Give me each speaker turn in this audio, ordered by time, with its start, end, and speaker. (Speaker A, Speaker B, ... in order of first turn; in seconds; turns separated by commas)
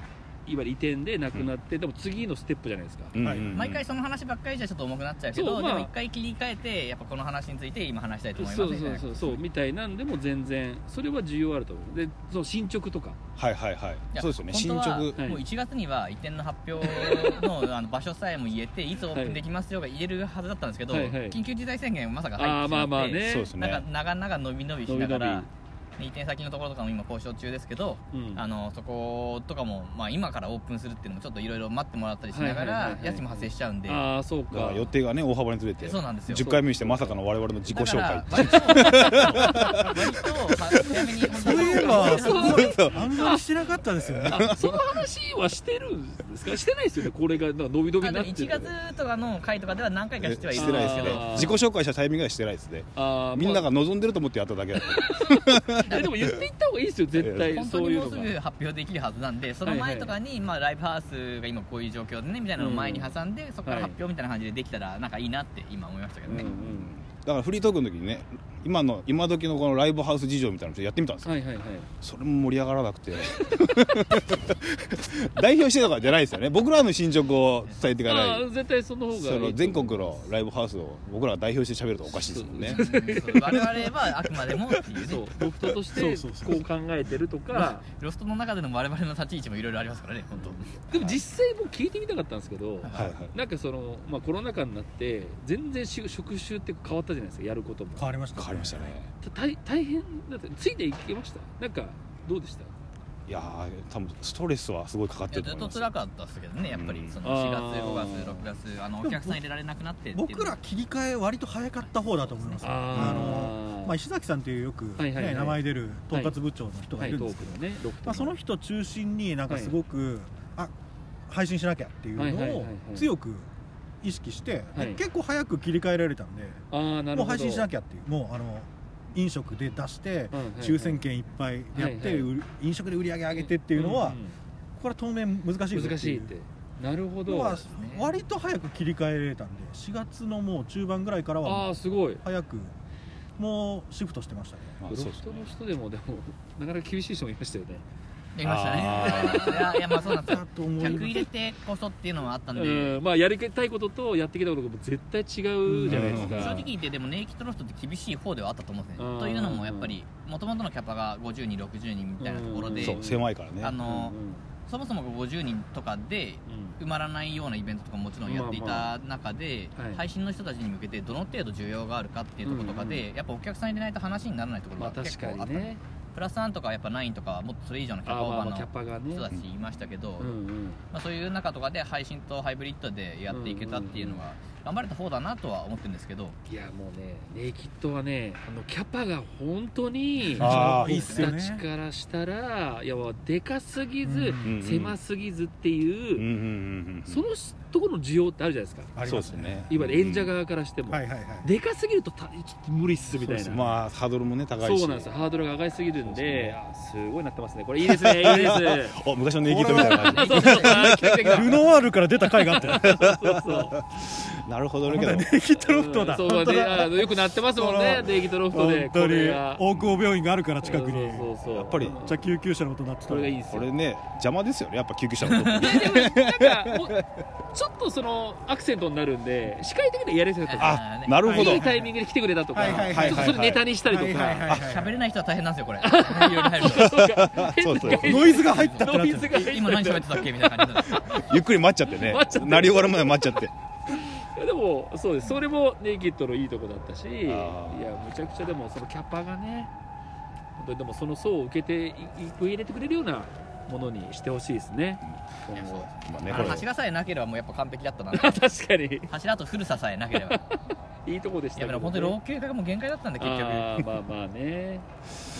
Speaker A: 0.5-3.2, Speaker B: 3.1-3.8, Speaker C: 3.2-3.5, Speaker D: 3.5-9.4, Speaker A: 5.3-5.9, Speaker A: 8.3-13.2, Speaker B: 13.4-15.2, Speaker D: 14.1-34.0, Speaker A: 15.1-15.4, Speaker A: 16.8-17.5, Speaker A: 19.1-19.4, Speaker A: 20.9-21.4, Speaker A: 22.4-23.5, Speaker B: 23.3-23.8, Speaker A: 24.9-25.5, Speaker A: 28.1-28.4, Speaker A: 32.3-34.9, Speaker B: 34.5-40.0, Speaker D: 35.8-36.5, Speaker A: 36.3-37.2, Speaker D: 37.7-42.8, Speaker A: 38.4-39.9, Speaker C: 41.4-44.6, Speaker A: 41.4-43.5, Speaker B: 42.3-43.1, Speaker B: 44.2-44.8, Speaker A: 44.2-48.7, Speaker D: 48.0-51.5, Speaker B: 50.2-56.1, Speaker A: 50.5-51.6, Speaker A: 53.0-53.7, Speaker A: 55.0-58.4, Speaker B: 57.2-57.6, Speaker D: 57.4-66.5, Speaker A: 59.6-60.1, Speaker A: 62.6-63.9, Speaker A: 66.3-66.9, Speaker B: 66.3-71.3, Speaker A: 71.2-71.9, Speaker B: 72.0-78.5, Speaker A: 78.0-80.3, Speaker B: 79.1-82.8, Speaker A: 82.0-83.6, Speaker D: 82.6-85.4, Speaker A: 85.0-87.8, Speaker C: 85.9-86.6, Speaker D: 87.5-91.1, Speaker B: 90.4-91.2, Speaker A: 90.9-98.1, Speaker D: 92.8-93.2, Speaker B: 92.9-93.3, Speaker C: 97.9-98.9, Speaker B: 98.3-99.1, Speaker A: 99.2-102.7, Speaker B: 103.3-105.9, Speaker D: 105.3-110.5, Speaker B: 106.7-107.2, Speaker A: 107.2-108.5, Speaker C: 109.0-109.4, Speaker C: 110.1-120.7, Speaker D: 111.8-112.8, Speaker A: 112.6-114.0, Speaker B: 112.9-113.3, Speaker A: 115.0-116.3, Speaker A: 117.0-118.3, Speaker A: 119.5-119.7, Speaker C: 121.3-123.5, Speaker A: 122.2-123.1, Speaker C: 124.0-134.2, Speaker A: 124.7-125.0, Speaker A: 126.7-127.7, Speaker A: 130.3-131.0, Speaker A: 131.7-132.3, Speaker A: 133.3-134.4, Speaker C: 134.8-136.3, Speaker A: 135.7-137.6, Speaker C: 137.2-142.7, Speaker D: 137.5-138.1, Speaker A: 141.4-142.2, Speaker C: 143.4-144.8, Speaker B: 144.8-145.4, Speaker A: 144.8-147.8, Speaker D: 148.3-153.0, Speaker B: 148.4-149.6, Speaker C: 148.6-151.2, Speaker A: 149.1-149.8, Speaker A: 152.5-156.7, Speaker C: 155.7-156.0, Speaker B: 155.9-156.6, Speaker D: 155.9-163.0, Speaker A: 159.0-159.9, Speaker A: 162.2-163.2, Speaker B: 162.8-163.7, Speaker D: 163.6-164.2, Speaker A: 163.8-164.4, Speaker D: 164.7-180.3, Speaker A: 166.5-166.8, Speaker A: 168.2-168.9, Speaker A: 169.8-170.0, Speaker A: 172.4-173.0, Speaker A: 174.8-175.8, Speaker A: 178.1-179.3, Speaker A: 180.2-180.8, Speaker D: 180.9-186.3, Speaker A: 183.3-184.2, Speaker A: 186.4-196.2, Speaker C: 190.3-191.6, Speaker B: 190.4-191.1, Speaker D: 190.4-191.3, Speaker C: 194.0-194.6, Speaker B: 194.4-194.9, Speaker B: 196.1-197.2, Speaker A: 197.1-203.8, Speaker C: 198.9-199.7, Speaker B: 199.1-200.3, Speaker C: 200.9-201.5, Speaker B: 203.2-205.1, Speaker A: 204.6-209.0, Speaker B: 206.0-206.6, Speaker B: 207.8-211.5, Speaker C: 209.4-213.1, Speaker A: 209.8-211.7, Speaker D: 210.1-210.9, Speaker A: 212.5-213.8, Speaker B: 212.6-215.3, Speaker C: 214.8-223.4, Speaker A: 215.6-219.6, Speaker B: 219.7-220.0, Speaker A: 220.6-222.2, Speaker B: 221.5-221.9, Speaker A: 223.1-223.7, Speaker B: 223.5-226.8, Speaker D: 225.2-225.8, Speaker A: 225.6-234.6, Speaker D: 230.4-231.2, Speaker B: 230.6-231.7, Speaker C: 231.2-231.9, Speaker C: 232.5-235.0, Speaker D: 232.6-232.8, Speaker B: 232.7-233.6, Speaker B: 234.4-234.7, Speaker D: 234.5-237.1, Speaker A: 235.8-240.3, Speaker B: 236.7-238.0, Speaker D: 237.8-241.3, Speaker C: 237.9-239.4, Speaker B: 240.8-243.5, Speaker A: 241.8-249.7, Speaker B: 247.2-247.9, Speaker A: 250.6-256.6, Speaker D: 255.5-258.5, Speaker B: 256.0-256.7, Speaker A: 258.1-259.1, Speaker D: 259.1-260.4, Speaker A: 260.2-262.2, Speaker D: 261.6-263.9, Speaker A: 263.2-264.9